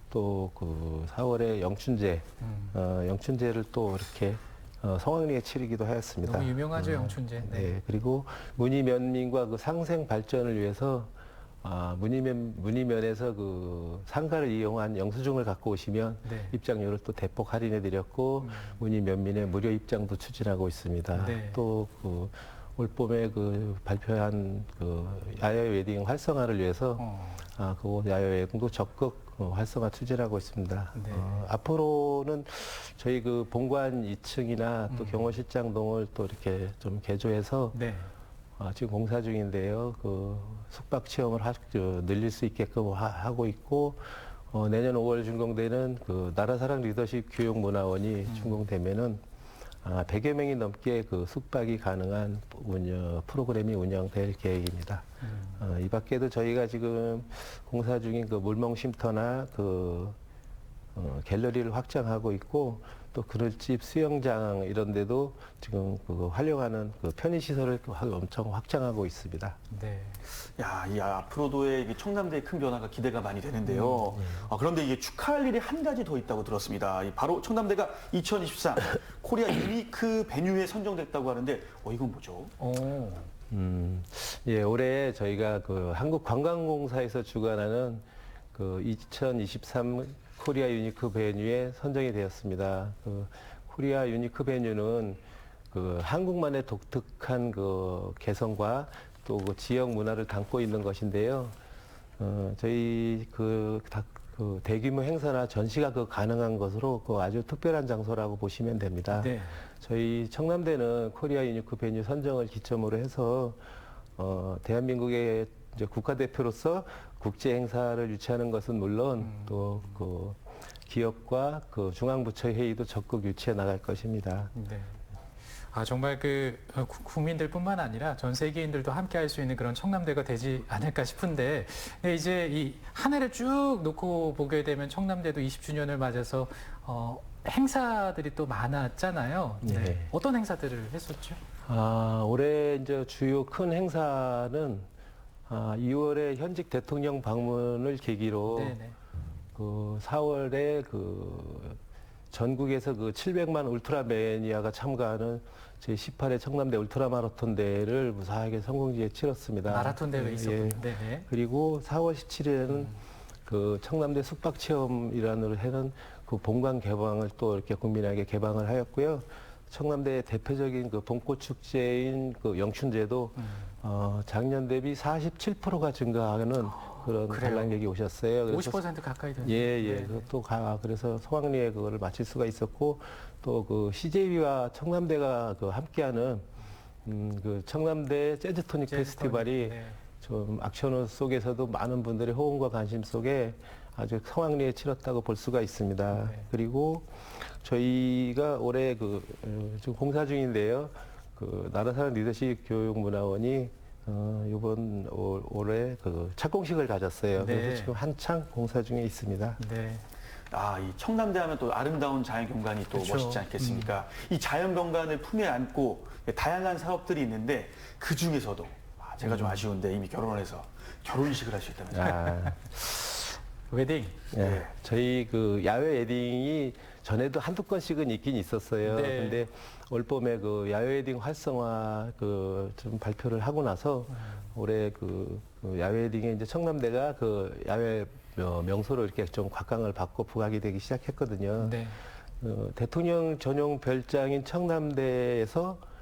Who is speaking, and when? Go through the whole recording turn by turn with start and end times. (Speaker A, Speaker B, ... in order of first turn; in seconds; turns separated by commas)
Speaker A: 0.1-37.8, Speaker B: 2.4-2.8, Speaker B: 6.2-7.8, Speaker B: 16.2-16.6, Speaker B: 18.4-18.8, Speaker B: 21.1-21.6, Speaker B: 27.0-27.4, Speaker B: 30.9-31.5, Speaker B: 34.9-35.3, Speaker B: 37.7-38.1, Speaker A: 38.6-49.2, Speaker B: 48.3-48.6, Speaker A: 49.8-55.0, Speaker B: 55.2-55.6, Speaker A: 55.6-60.2, Speaker A: 61.0-69.6, Speaker B: 69.7-70.2, Speaker C: 70.5-82.5, Speaker B: 73.7-74.1, Speaker A: 74.1-74.5, Speaker B: 82.6-83.3, Speaker A: 83.5-101.6, Speaker A: 102.2-113.6, Speaker B: 109.1-109.6, Speaker A: 114.2-124.5, Speaker B: 119.2-119.9, Speaker B: 124.5-125.0, Speaker B: 125.7-141.4, Speaker A: 139.6-140.1, Speaker A: 141.7-144.9, Speaker A: 145.5-148.8, Speaker B: 148.5-149.0, Speaker A: 149.6-151.8, Speaker A: 152.3-178.8, Speaker B: 159.7-161.3, Speaker B: 173.4-173.7, Speaker B: 176.7-177.8, Speaker B: 178.5-180.3, Speaker A: 179.4-186.5, Speaker A: 187.1-209.6, Speaker B: 188.9-190.0, Speaker B: 196.1-196.5, Speaker B: 207.3-208.0, Speaker B: 209.6-210.0, Speaker C: 210.5-222.3, Speaker B: 212.9-213.9, Speaker B: 219.2-219.6, Speaker A: 221.9-222.7, Speaker B: 222.3-224.2, Speaker A: 224.3-241.8, Speaker C: 224.3-224.7, Speaker B: 228.8-229.4, Speaker B: 234.2-234.4, Speaker B: 241.6-242.0, Speaker A: 242.4-245.8